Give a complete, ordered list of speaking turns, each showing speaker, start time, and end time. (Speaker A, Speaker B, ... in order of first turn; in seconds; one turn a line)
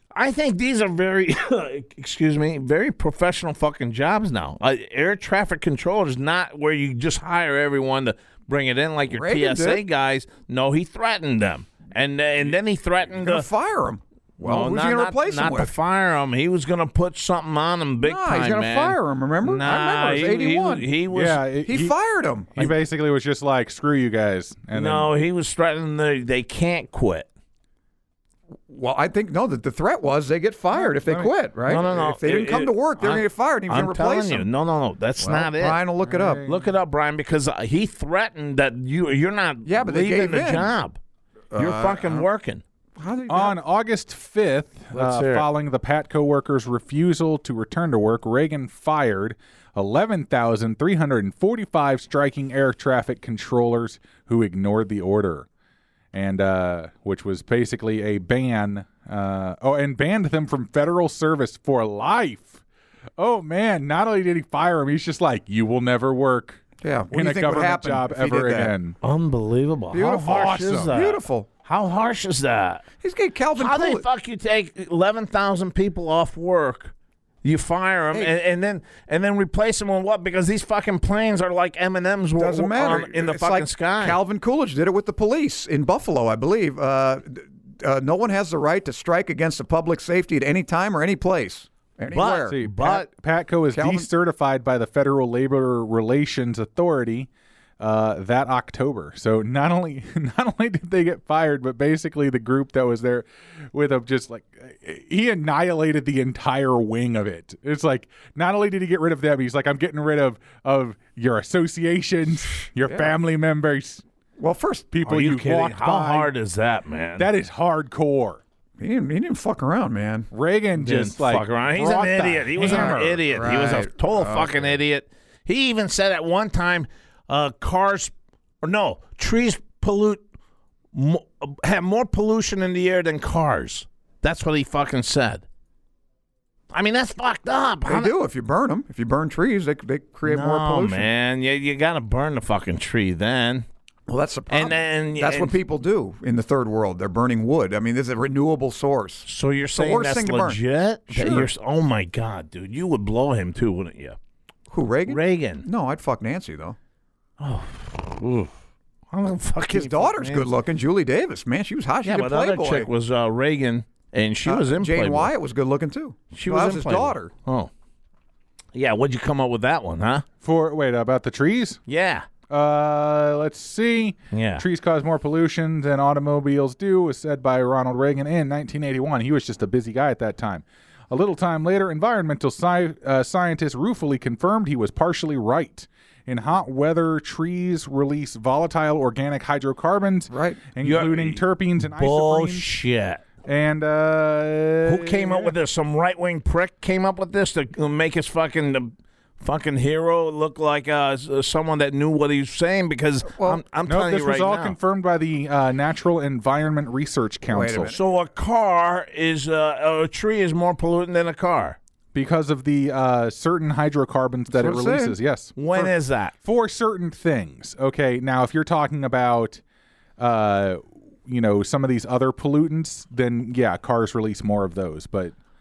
Speaker A: 0.1-13.5
Speaker B: 9.1-9.8
Speaker B: 13.2-15.7
Speaker A: 14.4-21.4
Speaker B: 18.0-20.9
Speaker C: 21.1-21.9
Speaker B: 21.6-22.7
Speaker C: 22.5-25.1
Speaker A: 24.7-27.3
Speaker B: 28.7-34.5
Speaker C: 30.7-31.3
Speaker A: 31.7-35.8
Speaker B: 35.2-36.4
Speaker C: 36.0-36.7
Speaker A: 36.4-41.0
Speaker B: 39.6-40.7
Speaker B: 41.5-42.2
Speaker A: 41.5-42.6
Speaker B: 43.0-43.6
Speaker C: 43.3-55.5
Speaker A: 44.9-45.5
Speaker C: 56.1-62.6
Speaker C: 63.2-69.0
Speaker B: 66.8-68.7
Speaker A: 69.0-72.8
Speaker B: 69.9-71.5
Speaker C: 70.3-70.9
Speaker B: 73.0-74.0
Speaker A: 73.5-76.9
Speaker A: 77.4-84.2
Speaker B: 82.4-92.9
Speaker A: 92.1-93.1
Speaker C: 92.5-97.3
Speaker B: 93.7-94.1
Speaker C: 97.8-114.0
Speaker B: 112.8-113.1
Speaker B: 114.4-114.9
Speaker C: 114.9-116.3
Speaker A: 115.0-117.3
Speaker C: 117.2-118.4
Speaker B: 118.8-120.3
Speaker C: 120.3-123.2
Speaker A: 120.8-130.2
Speaker B: 122.6-124.7
Speaker A: 130.9-135.4
Speaker A: 136.7-138.1
Speaker B: 137.8-141.1
Speaker A: 140.2-143.7
Speaker B: 144.1-151.5
Speaker A: 144.5-145.5
Speaker A: 149.2-154.2
Speaker B: 154.7-156.8
Speaker A: 155.1-155.7
Speaker A: 157.4-158.5
Speaker A: 159.1-160.5
Speaker B: 159.7-162.9
Speaker A: 162.0-165.3
Speaker B: 164.4-167.3
Speaker A: 166.3-167.7
Speaker A: 168.7-170.2
Speaker C: 170.4-171.8
Speaker A: 171.9-172.3
Speaker C: 172.5-192.7
Speaker A: 174.3-174.6
Speaker B: 190.3-190.6
Speaker A: 190.8-193.2
Speaker C: 193.4-195.5
Speaker A: 194.8-204.8
Speaker B: 203.3-203.6
Speaker C: 203.9-207.9
Speaker B: 207.5-208.0
Speaker A: 207.9-211.8
Speaker C: 212.1-215.9
Speaker B: 214.5-215.2
Speaker A: 215.6-216.3
Speaker C: 216.4-219.6
Speaker C: 220.2-225.3